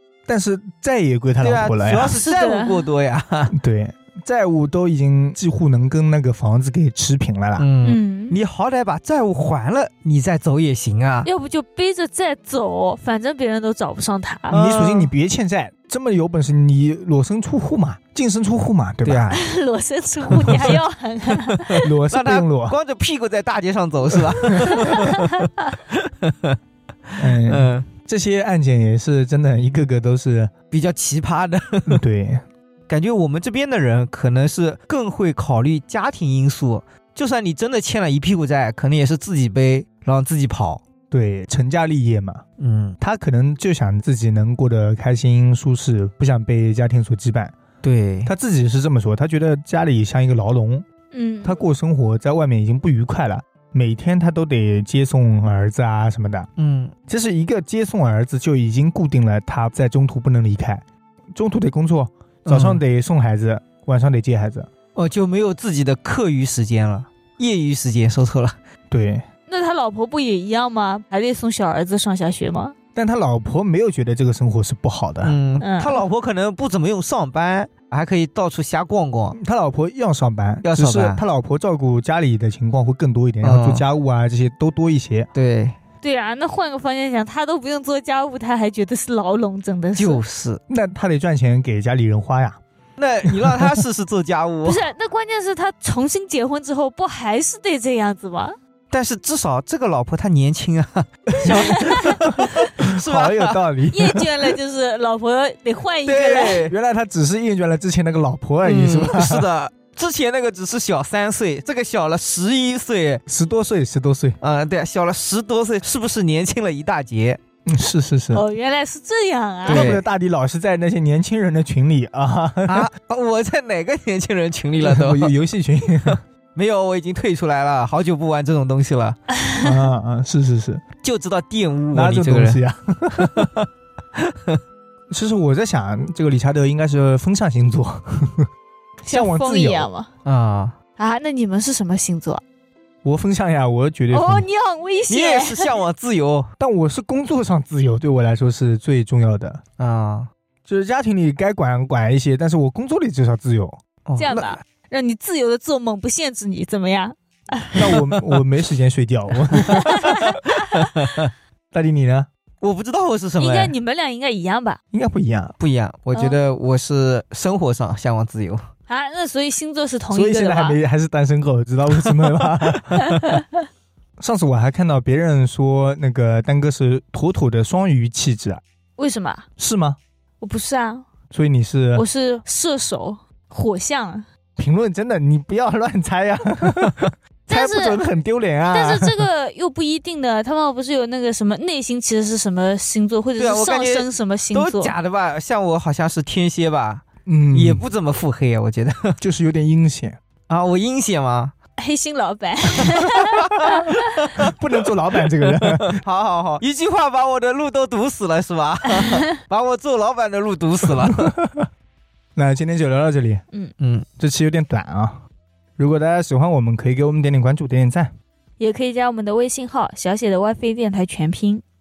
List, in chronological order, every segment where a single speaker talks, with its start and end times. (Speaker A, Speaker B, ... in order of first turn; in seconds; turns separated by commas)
Speaker A: 0.3-2.2, Speaker B: 1.4-3.5, Speaker C: 2.1-2.9, Speaker A: 3.5-7.7, Speaker B: 7.6-11.3, Speaker C: 7.8-8.4, Speaker C: 11.2-14.6, Speaker B: 14.5-15.1, Speaker A: 14.5-19.4, Speaker B: 19.0-19.4, Speaker C: 19.3-21.9, Speaker B: 20.3-26.6, Speaker A: 20.3-20.8, Speaker A: 21.8-22.8, Speaker A: 24.4-24.9, Speaker C: 24.8-25.7, Speaker B: 27.1-27.9, Speaker A: 27.2-30.5, Speaker B: 30.7-32.0, Speaker A: 31.9-32.4, Speaker B: 32.9-40.8, Speaker A: 41.1-42.4, Speaker B: 42.6-43.0, Speaker A: 43.0-47.5, Speaker B: 47.8-48.3, Speaker A: 48.2-50.9, Speaker C: 51.1-51.6, Speaker A: 51.4-56.5, Speaker B: 56.6-56.9, Speaker A: 57.1-60.8, Speaker A: 61.3-64.7, Speaker B: 62.4-62.8, Speaker B: 64.9-68.5, Speaker A: 68.9-69.2, Speaker C: 69.5-72.7, Speaker A: 72.9-75.4, Speaker B: 75.2-79.3, Speaker C: 75.6-76.0, Speaker A: 79.3-85.3, Speaker B: 80.6-81.2, Speaker B: 83.4-83.8, Speaker B: 85.3-85.8, Speaker C: 86.0-90.2, Speaker B: 90.0-90.6, Speaker A: 90.7-92.6, Speaker B: 93.0-94.8, Speaker A: 93.3-93.8, Speaker C: 94.6-98.5, Speaker B: 98.9-103.6, Speaker A: 101.4-104.3, Speaker C: 101.5-102.2, Speaker C: 103.9-106.7, Speaker B: 106.0-106.7, Speaker A: 106.7-109.5, Speaker B: 108.6-113.2, Speaker A: 113.2-114.4, Speaker B: 114.4-117.4, Speaker A: 117.7-118.4, Speaker C: 118.3-120.0, Speaker A: 119.7-122.9, Speaker B: 119.7-120.0, Speaker B: 122.7-125.3, Speaker A: 124.8-126.2, Speaker B: 126.0-129.2, Speaker C: 129.3-129.7, Speaker A: 129.6-130.8, Speaker B: 131.0-132.6, Speaker A: 131.9-133.5, Speaker B: 133.2-134.6, Speaker A: 135.1-138.5, Speaker A: 139.0-139.9, Speaker C: 139.1-140.1, Speaker B: 140.2-140.8, Speaker C: 141.0-142.4, Speaker A: 143.0-144.5, Speaker C: 144.1-145.7, Speaker B: 145.1-146.5, Speaker A: 146.6-149.6, Speaker B: 149.8-150.3, Speaker A: 150.7-153.8, Speaker B: 154.1-154.6, Speaker C: 154.2-158.1, Speaker A: 157.7-160.4, Speaker B: 159.5-161.3, Speaker C: 159.8-160.6, Speaker A: 161.7-162.3, Speaker B: 162.6-163.7, Speaker C: 163.4-164.8, Speaker A: 164.9-165.5, Speaker B: 165.6-168.7, Speaker C: 168.9-170.8, Speaker A: 170.1-173.4, Speaker B: 171.9-173.0, Speaker C: 173.0-173.4, Speaker A: 174.2-178.6, Speaker C: 179.0-179.5, Speaker A: 179.6-180.0, Speaker C: 180.4-181.0, Speaker A: 181.3-182.0, Speaker C: 181.9-184.2, Speaker A: 184.6-189.2, Speaker C: 187.5-188.0, Speaker C: 188.7-194.9, Speaker B: 193.4-199.2, Speaker A: 197.2-197.8, Speaker A: 199.2-200.2, Speaker B: 200.5-201.5, Speaker C: 201.8-204.3, Speaker B: 202.7-204.5, Speaker A: 203.5-206.0, Speaker B: 205.4-211.3, Speaker C: 208.9-209.2, Speaker A: 211.0-211.7, Speaker A: 212.3-213.4, Speaker B: 213.8-214.1, Speaker A: 214.2-215.2, Speaker A: 215.8-218.1, Speaker C: 218.6-221.6